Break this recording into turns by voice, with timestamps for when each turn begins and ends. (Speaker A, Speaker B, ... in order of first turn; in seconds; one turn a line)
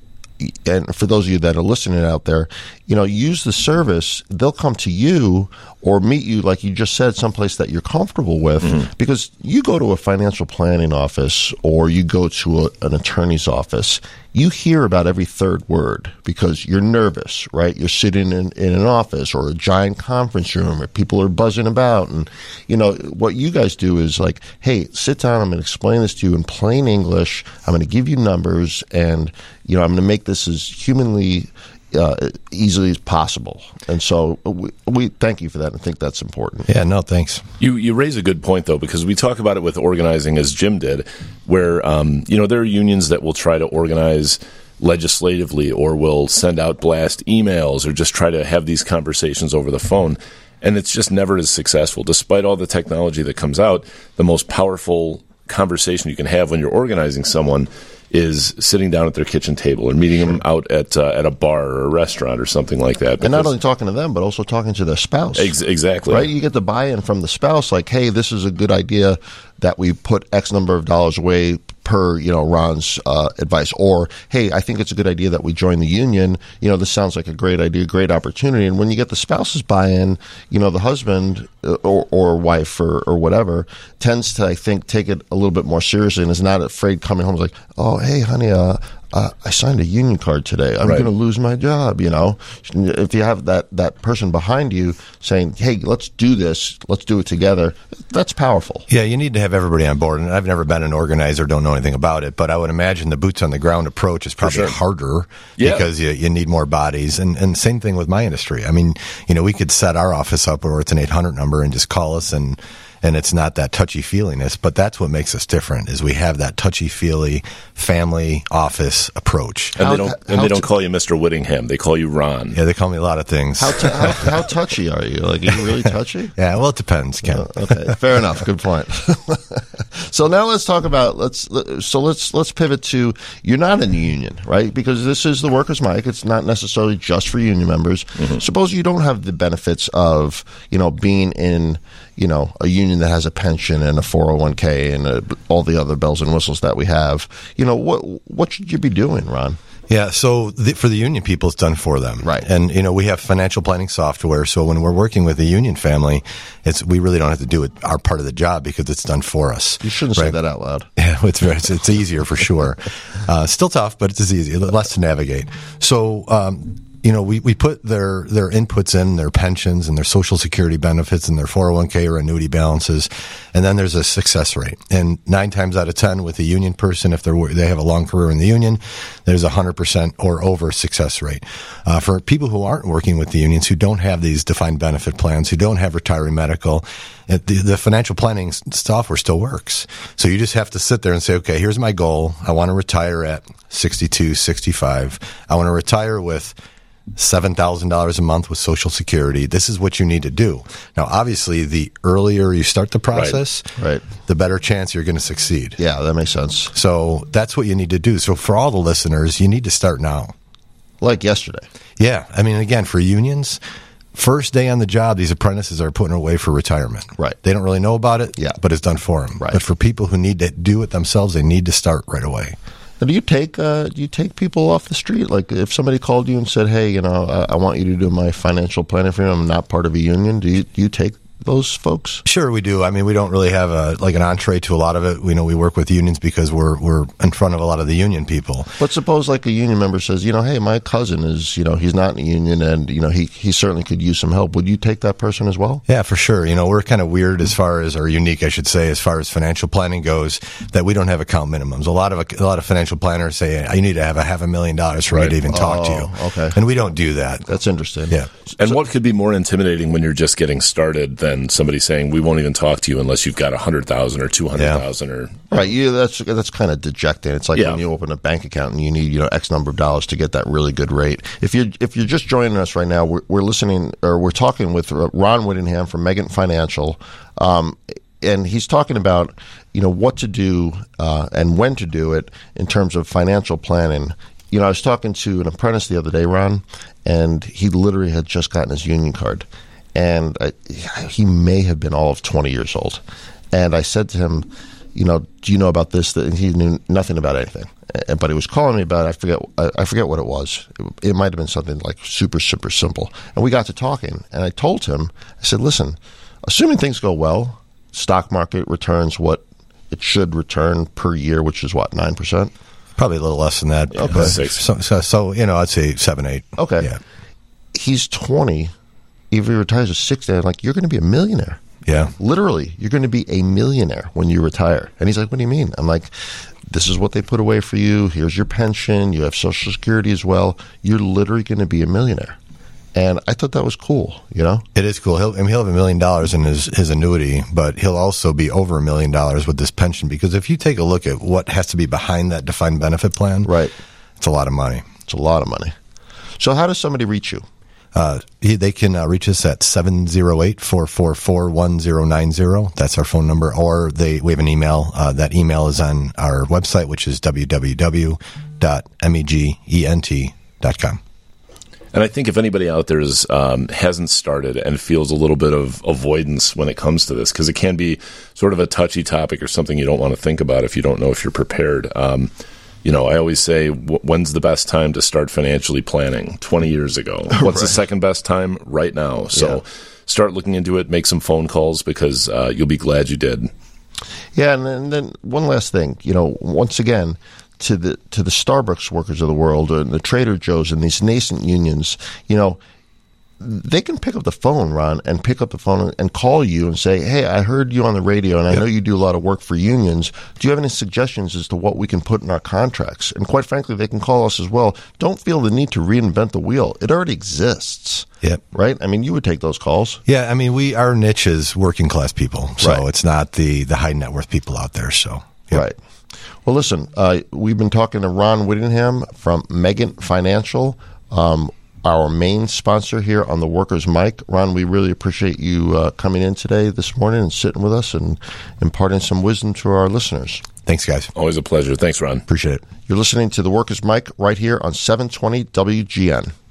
Speaker A: 0.4-36.7
Speaker B: 36.7-37.4
Speaker C: 37.6-63.5
Speaker A: 63.2-65.5
Speaker C: 65.3-66.3
Speaker A: 66.1-98.9
Speaker C: 90.8-91.1
Speaker B: 98.9-119.8
Speaker C: 104.4-104.7
Speaker C: 105.6-105.9
Speaker C: 119.8-122.6
Speaker A: 119.8-120.7
Speaker B: 122.5-124.3
Speaker A: 123.6-126.3
Speaker B: 126.4-128.0
Speaker A: 127.3-149.6
Speaker B: 149.9-160.4
Speaker A: 152.2-152.5
Speaker A: 159.8-160.9
Speaker B: 161.0-196.6
Speaker B: 197.2-203.7
Speaker A: 203.8-204.0
Speaker B: 204.3-205.8
Speaker A: 205.8-206.7
Speaker B: 206.7-210.3
Speaker A: 211.0-211.7
Speaker B: 212.0-213.6
Speaker B: 214.2-222.6
Speaker A: 223.0-232.2
Speaker B: 232.3-238.7
Speaker A: 238.8-245.8
Speaker B: 245.9-257.6
Speaker A: 255.1-256.6
Speaker A: 257.5-258.2
Speaker C: 258.6-265.4
Speaker B: 264.6-264.9
Speaker A: 265.5-293.0
Speaker C: 267.6-267.8
Speaker A: 293.5-312.5
Speaker B: 313.0-317.0
Speaker C: 313.9-314.6
Speaker A: 314.0-314.4
Speaker A: 316.6-316.9
Speaker A: 317.7-318.7
Speaker A: 319.3-321.6
Speaker B: 321.9-322.1
Speaker A: 322.2-326.1
Speaker A: 326.7-332.4
Speaker A: 332.9-334.6
Speaker B: 334.8-343.5
Speaker A: 343.4-343.7
Speaker B: 344.2-344.9
Speaker A: 345.1-345.7
Speaker A: 346.4-347.4
Speaker B: 347.9-361.0
Speaker C: 361.9-372.3
Speaker C: 372.8-383.5
Speaker A: 377.4-377.7
Speaker A: 379.3-379.6
Speaker A: 384.4-392.6
Speaker A: 393.4-410.0
Speaker B: 410.1-415.6
Speaker A: 416.4-430.4
Speaker B: 430.6-431.1
Speaker C: 431.1-432.2
Speaker B: 432.3-432.6
Speaker A: 432.9-436.3